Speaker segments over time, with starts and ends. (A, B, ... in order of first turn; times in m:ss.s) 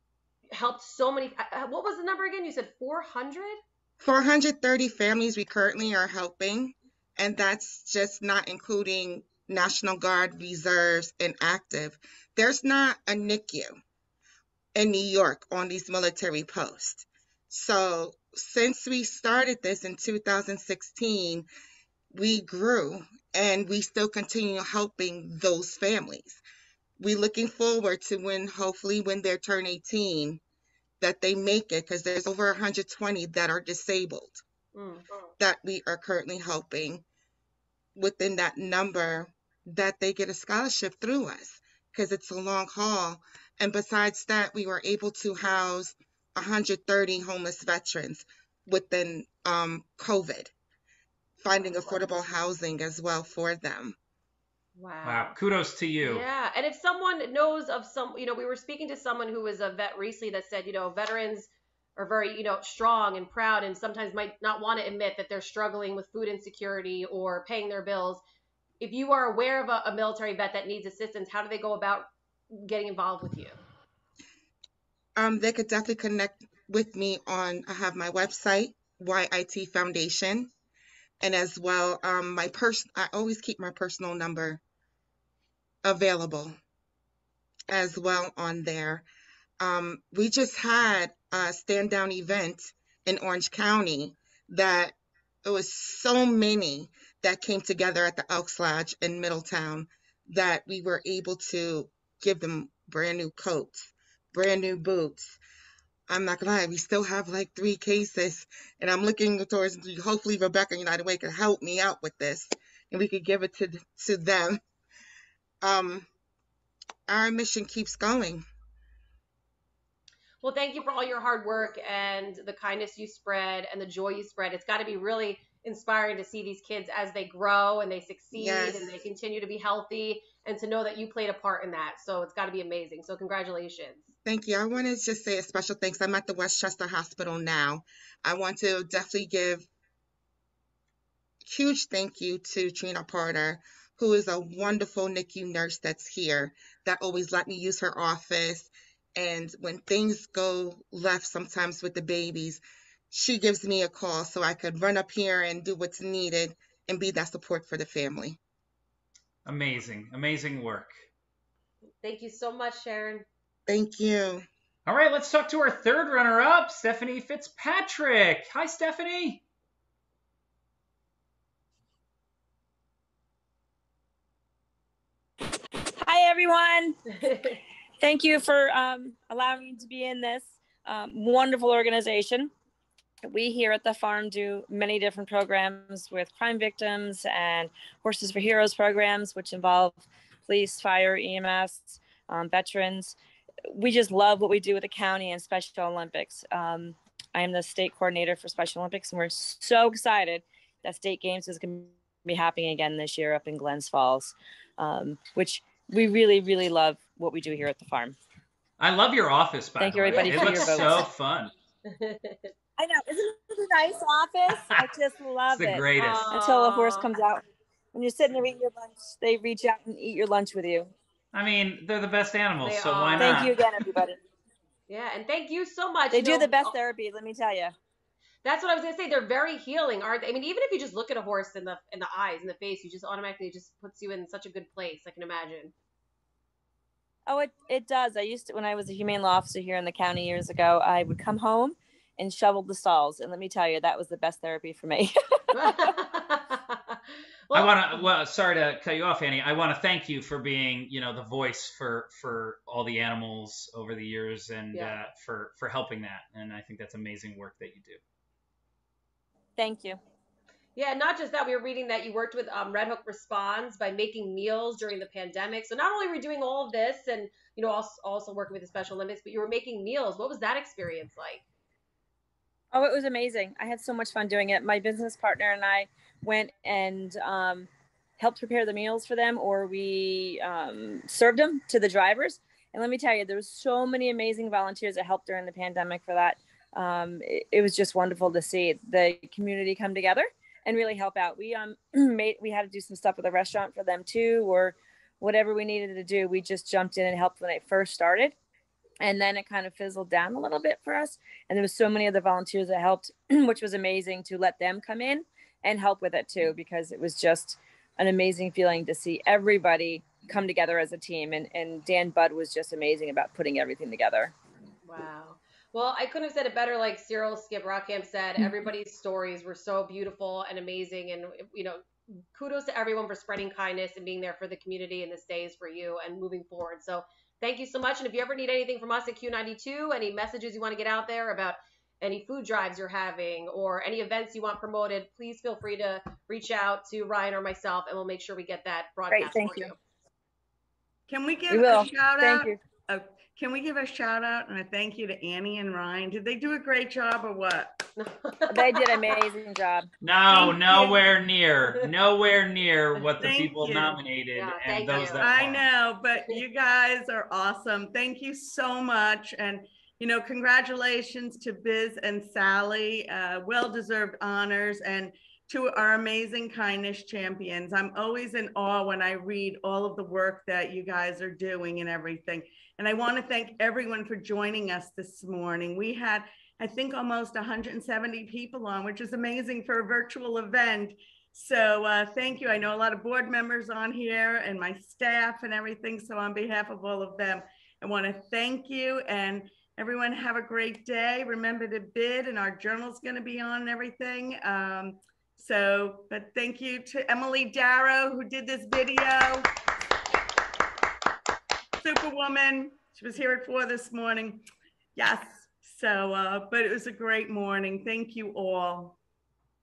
0:00.5-0:03.6 A
0:04.0-0:13.8 B
0:14.7-0:21.5 B
0:22.1-0:26.4 B
0:27.0-0:30.4 B
0:31.0-0:34.4 B
0:34.7-0:35.0 A
0:35.4-0:37.0 B
0:38.0-0:50.5 B
0:51.4-0:54.0 B
0:54.8-0:55.3 A
0:55.0-0:56.2 C
0:56.0-1:08.2 A
1:08.8-1:13.6 A
1:15.2-1:20.5 B
1:21.2-1:24.6 B
1:25.8-1:26.6 B
1:27.7-1:29.0 B
1:29.6-1:45.4 B
1:46.1-1:54.6 B
1:55.6-1:56.1 B
1:57.1-1:58.4 B
2:00.4-2:14.1 A
2:08.3-2:08.9 B
2:14.2-2:19.6 B
2:21.4-2:38.4 B
2:39.4-2:40.9 C
2:42.0-2:43.2 A
2:43.7-2:44.4 B
2:44.8-2:49.4 C
2:56.0-2:57.0 D
2:57.2-2:57.5 A
2:58.0-3:02.5 D
3:03.2-3:28.2 D
3:28.8-3:31.5 C
3:29.8-3:31.1 D
3:30.1-3:31.0 A
3:31.9-3:32.5 A
3:32.8-3:40.9 D
3:34.5-3:34.8 C
3:35.5-3:36.3 C
3:36.0-3:37.1 A
3:41.3-3:43.6 C
3:42.6-3:43.5 A
3:43.2-3:44.2 D
3:44.9-3:46.7 A
3:46.1-3:47.7 D
3:48.4-3:55.7 A
3:57.3-4:05.8 D
4:05.5-4:07.8 A
4:07.5-4:18.0 C
4:14.7-4:15.0 A
4:19.6-4:20.0 D
4:20.8-4:31.4 A
4:32.7-4:58.4 D
4:59.0-5:14.3 D
5:14.8-5:21.8 A
5:22.3-5:39.7 A
5:39.1-5:39.7 D
5:41.1-5:47.8 E
5:41.5-5:42.6 D
5:48.0-5:48.9 A
5:48.5-5:49.9 D
5:50.0-5:55.7 C
5:50.3-5:51.0 E
5:53.2-5:54.0 E
5:54.3-5:55.2 A
5:55.2-6:39.4 E
6:41.8-6:44.4 E
6:45.0-6:49.0 E